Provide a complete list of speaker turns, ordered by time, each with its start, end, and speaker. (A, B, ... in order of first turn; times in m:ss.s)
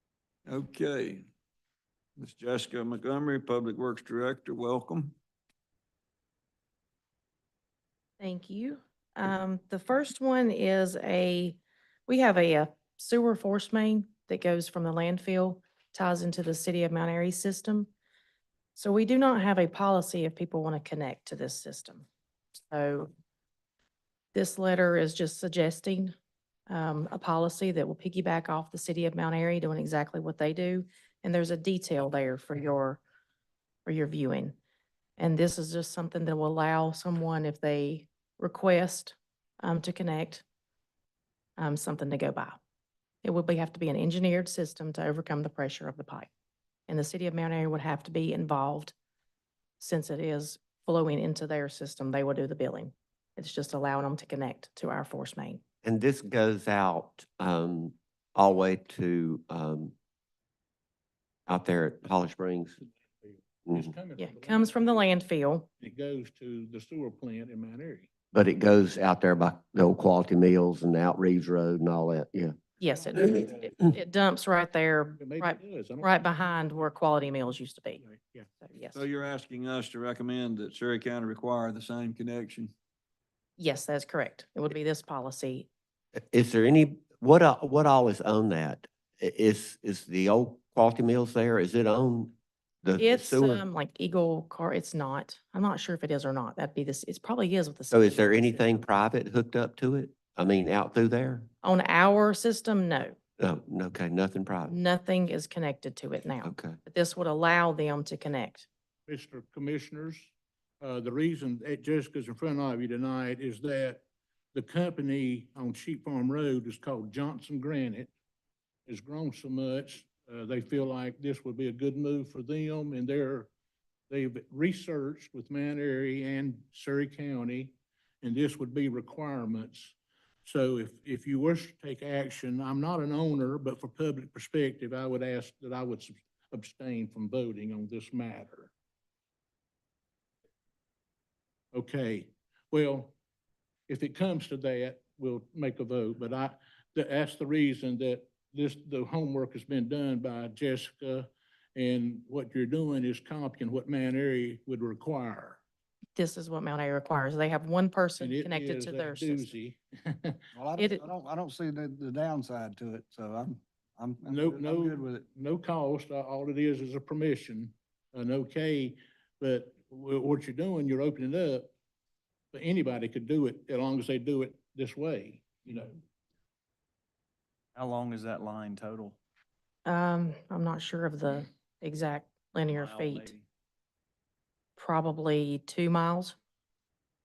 0:00.5-0:01.2 A
0:02.2-0:05.2 A
0:08.2-0:17.9 B
0:18.8-0:22.1 B
0:22.7-0:23.1 B
0:24.3-0:26.1 B
0:26.7-0:33.0 B
0:33.9-0:34.6 B
0:35.2-0:40.4 B
0:41.6-0:42.6 B
0:43.2-0:46.3 B
0:46.9-0:48.9 B
0:49.8-0:55.6 B
0:55.8-0:59.9 C
1:01.5-1:02.8 C
1:03.2-1:05.0 D
1:03.7-1:03.9 C
1:04.2-1:05.7 B
1:05.8-1:08.1 D
1:08.3-1:12.5 C
1:12.8-1:18.0 B
1:15.2-1:16.1 D
1:18.0-1:18.5 D
1:18.6-1:19.0 B
1:18.9-1:22.7 A
1:23.6-1:25.7 B
1:26.2-1:33.6 C
1:33.0-1:38.8 B
1:37.9-1:41.5 C
1:41.6-1:43.2 B
1:43.4-1:44.8 C
1:44.7-1:48.7 B
1:46.4-1:46.8 C
1:49.1-1:54.0 D
1:54.5-1:58.1 D
1:58.9-2:03.5 D
2:04.1-2:18.7 D
2:21.7-2:23.1 D
2:23.9-2:35.6 D
2:36.2-2:39.6 B
2:38.2-2:40.4 D
2:40.5-2:45.3 E
2:44.3-2:51.7 D
2:52.5-2:56.0 D
2:57.8-2:59.2 F
2:59.9-3:03.3 B
3:02.7-3:03.4 F
3:04.8-3:06.4 B